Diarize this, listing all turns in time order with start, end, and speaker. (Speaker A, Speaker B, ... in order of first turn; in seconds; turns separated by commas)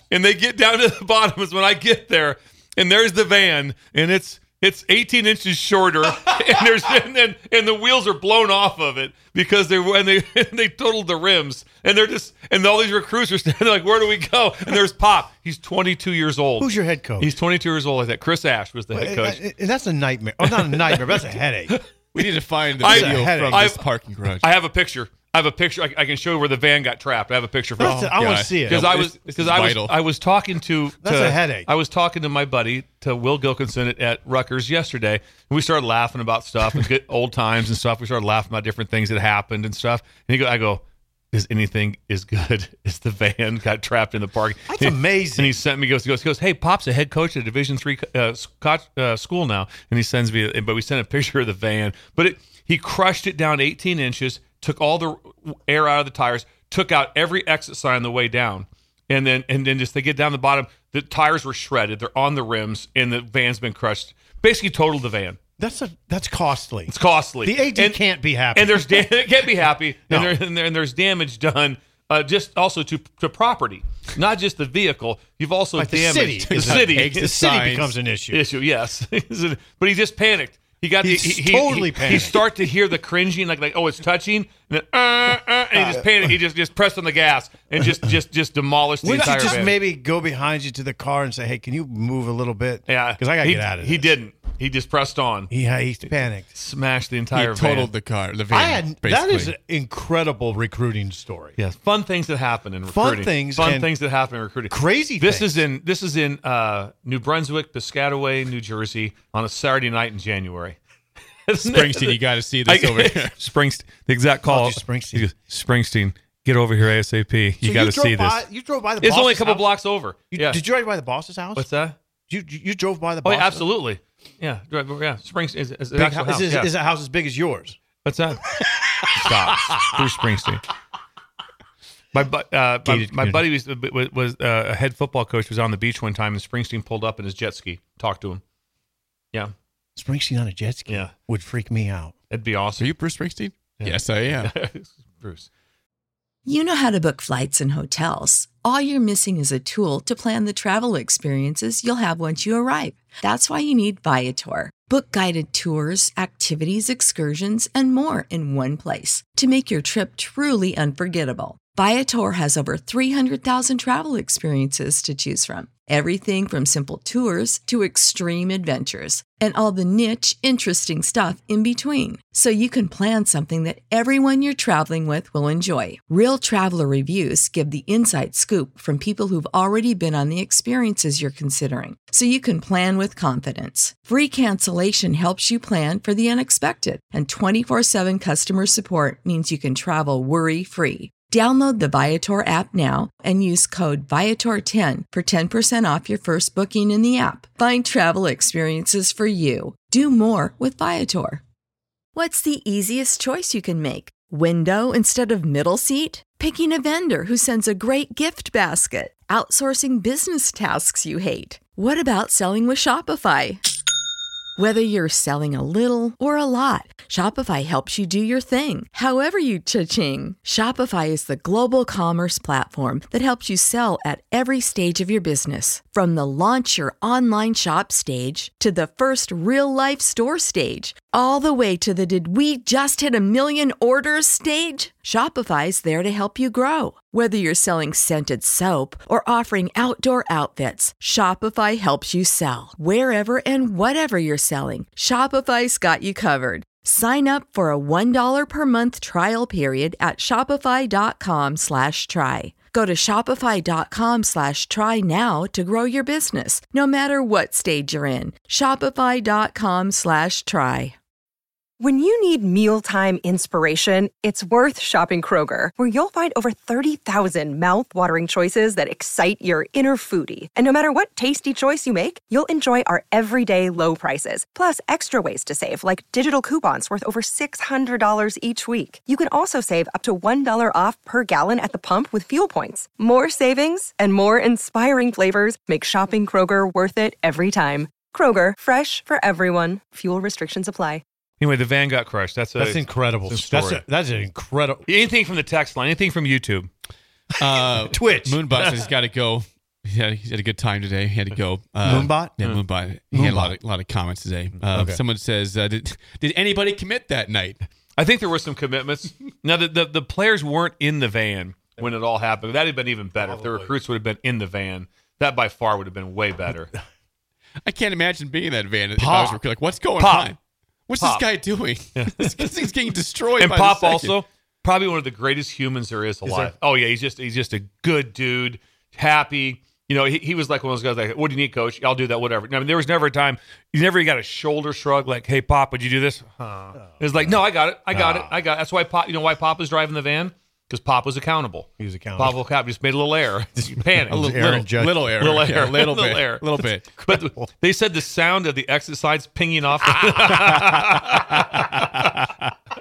Speaker A: 0.1-19.4, Speaker B: 16.6-17.3, Speaker B: 18.9-21.8, Speaker A: 20.4-22.3, Speaker C: 22.1-24.5, Speaker A: 22.8-23.8, Speaker B: 22.8-23.7, Speaker A: 24.4-65.4, Speaker B: 27.8-29.0, Speaker C: 27.8-30.0, Speaker B: 31.0-31.7, Speaker B: 44.7-45.6, Speaker B: 65.6-69.1, Speaker A: 66.9-68.0, Speaker A: 68.5-77.3, Speaker B: 70.1-70.4, Speaker B: 75.8-78.4, Speaker C: 76.4-77.9, Speaker A: 78.3-89.8, Speaker B: 81.0-82.5, Speaker B: 85.7-86.3, Speaker B: 89.0-94.1, Speaker A: 92.9-95.5, Speaker B: 95.5-96.5, Speaker A: 96.5-97.9, Speaker C: 97.3-99.5, Speaker B: 98.5-101.6, Speaker A: 101.6-110.8, Speaker B: 102.9-103.9, Speaker B: 104.7-105.6, Speaker A: 111.5-118.4, Speaker C: 111.6-113.3, Speaker B: 114.5-115.3, Speaker B: 117.6-119.7, Speaker A: 119.0-120.6, Speaker B: 120.3-121.7, Speaker A: 121.6-122.0, Speaker B: 122.3-123.7, Speaker A: 123.2-126.7, Speaker B: 126.0-127.8, Speaker A: 128.0-130.6, Speaker B: 129.2-129.8, Speaker A: 132.1-138.4, Speaker B: 132.8-133.4, Speaker B: 140.0-142.2, Speaker A: 142.3-142.9, Speaker C: 142.8-144.5, Speaker A: 143.8-145.5, Speaker D: 146.4-201.4, Speaker D: 202.2-213.6, Speaker D: 214.6-260.9, Speaker E: 261.8-291.0, Speaker A: 291.4-293.8, Speaker B: 292.6-294.9, Speaker A: 294.9-296.7, Speaker C: 297.4-307.6, Speaker B: 297.5-298.5, Speaker B: 301.8-302.6, Speaker B: 303.1-303.6, Speaker B: 304.7-305.0, Speaker A: 308.0-316.7, Speaker B: 313.2-313.7, Speaker C: 317.6-320.4, Speaker A: 319.0-319.4, Speaker A: 320.0-320.3, Speaker C: 320.9-324.1, Speaker A: 321.9-322.7, Speaker A: 323.4-344.6, Speaker B: 326.3-326.5, Speaker B: 337.0-337.3, Speaker B: 337.9-338.3, Speaker B: 341.8-342.4, Speaker B: 343.6-345.2, Speaker C: 344.1-347.0, Speaker A: 345.2-351.7, Speaker C: 351.2-352.5